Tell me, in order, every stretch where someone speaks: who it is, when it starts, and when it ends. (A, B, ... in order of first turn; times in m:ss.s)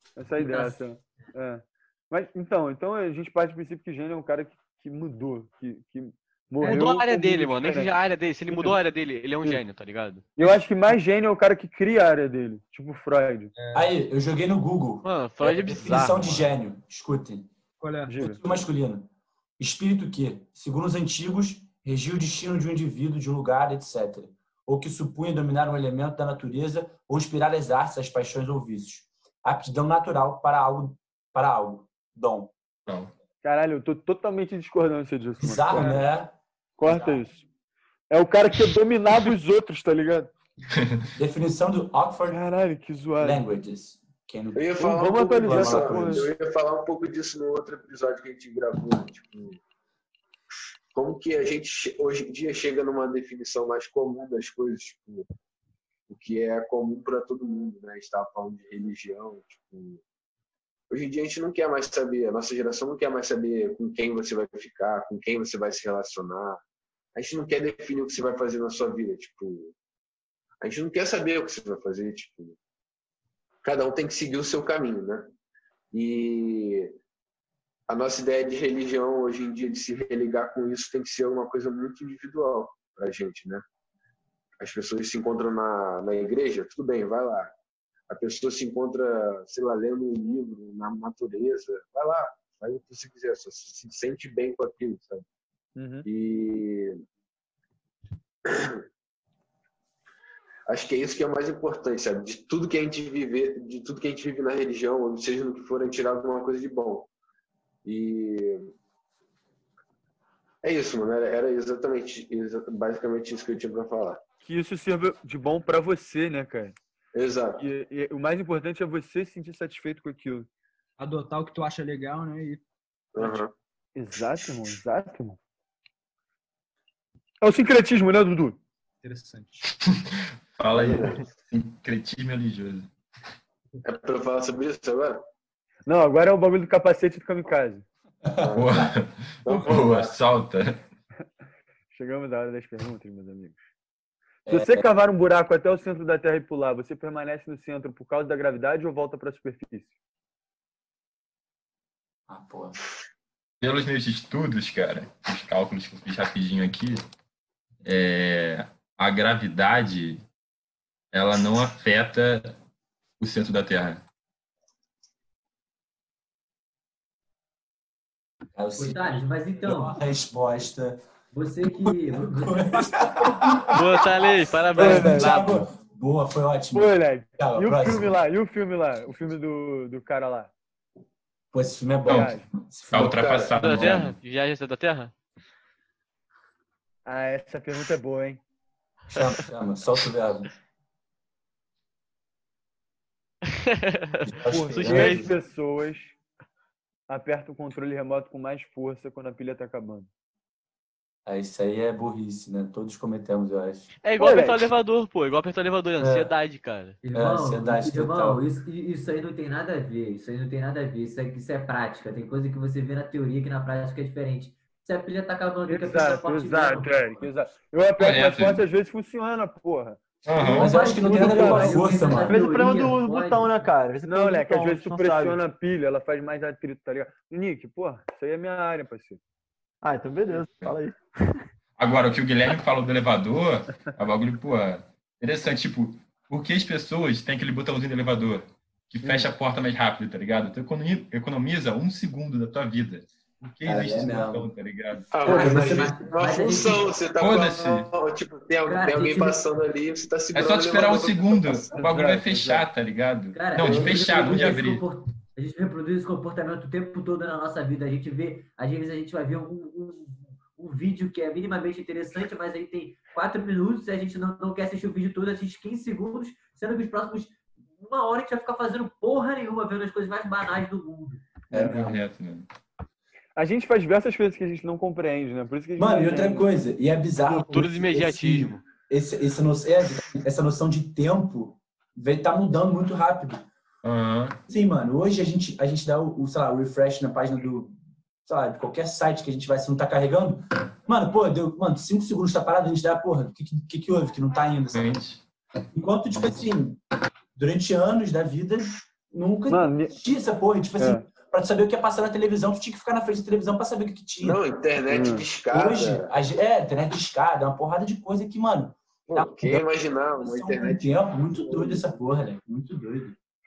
0:00.2-0:07.9 A
0:00.3-0:00.8 B
0:06.6-0:10.2 C
0:08.5-0:08.8 A
0:10.4-0:13.5 A
0:13.5-0:14.0 D
0:13.7-0:17.5 E
0:15.0-0:16.5 C
0:17.8-0:18.1 D
0:18.1-0:18.4 A
0:18.2-0:32.5 E
0:32.9-0:33.1 F
0:33.4-0:36.0 A
0:35.4-0:37.2 E
0:35.7-0:36.0 D
0:36.8-0:37.4 A
0:38.1-0:40.3 A
0:40.7-0:41.0 F
0:41.2-0:42.4 E
0:42.3-0:43.4 A
0:43.2-0:46.3 E
0:44.5-0:49.6 G
0:44.8-0:46.3 A
0:50.9-0:55.2 G
0:56.1-1:00.0 G
1:00.9-1:06.6 G
1:07.1-1:09.7 G
1:10.6-1:12.6 G
1:13.6-1:15.3 G
1:15.9-1:17.0 G
1:17.9-1:23.6 G
1:24.6-1:27.5 G
1:28.1-1:35.2 G
1:35.8-1:36.1 A
1:36.0-1:36.9 G
1:38.5-1:38.8 G
1:40.7-1:47.1 G
1:47.8-1:48.7 G
1:50.6-1:54.2 G
1:54.4-1:56.8 A
1:57.1-1:57.6 G
1:57.6-2:00.5 A
2:01.0-2:02.6 D
2:03.1-2:03.5 G
2:03.9-2:05.4 A
2:07.4-2:08.6 A
2:09.0-2:09.7 D
2:09.8-2:12.9 F
2:10.7-2:11.3 G
2:13.8-2:15.2 G
2:15.9-2:17.8 A
2:18.4-2:18.9 G
2:18.5-2:20.8 F
2:19.4-2:20.2 G
2:21.9-2:23.6 A
2:24.4-2:24.8 E
2:24.5-2:29.9 A
2:32.3-2:32.8 E
2:33.6-2:37.0 F
2:37.8-2:40.2 F
2:41.1-2:42.6 F
2:43.2-2:44.0 F
2:48.5-2:51.0 E
2:48.8-2:50.0 B
2:51.3-2:53.0 B
2:51.8-2:58.1 E
2:53.7-2:55.6 C
2:54.8-2:55.5 A
2:56.7-3:00.5 A
3:01.5-3:04.0 E
3:02.0-3:02.3 F
3:02.1-3:02.5 A
3:02.9-3:04.2 F
3:03.0-3:03.9 G
3:03.6-3:05.1 C
3:07.0-3:08.4 A
3:09.1-3:10.5 E
3:13.4-3:15.3 C
3:14.2-3:15.3 E
3:14.5-3:16.2 A
3:17.1-3:20.1 A
3:21.2-3:23.9 E
3:24.0-3:27.0 C
3:24.2-3:24.6 A
3:26.0-3:26.3 E
3:27.0-3:37.3 B
3:27.1-3:28.4 E
3:35.6-3:42.0 A
3:38.0-3:38.6 F
3:40.2-3:40.8 F
3:40.4-3:43.6 B
3:40.4-3:42.4 E
3:42.2-3:45.4 H
3:44.1-3:49.2 A
3:49.8-3:51.3 H
3:51.8-4:05.1 F
3:59.0-3:59.3 A
4:03.6-4:04.5 E
4:05.1-4:11.8 G
4:05.2-4:06.8 E
4:05.2-4:06.9 B
4:07.2-4:07.9 F
4:08.6-4:09.4 B
4:10.3-4:14.8 F
4:11.7-4:12.7 A
4:13.3-4:31.2 B
4:13.6-4:14.4 G
4:31.5-4:32.0 E
4:31.5-4:31.8 A
4:31.6-4:32.5 F
4:33.4-4:36.5 A
4:35.8-4:43.5 E
4:37.2-4:38.6 C
4:43.8-4:44.4 F
4:44.5-4:55.0 E
4:54.7-4:55.2 F
4:55.7-4:56.8 E
4:57.3-5:04.4 E
4:59.5-5:00.0 A
5:00.8-5:01.1 A
5:04.2-5:06.1 G
5:04.9-5:05.3 A
5:05.5-5:09.3 E
5:09.1-5:11.9 G
5:10.2-5:13.2 E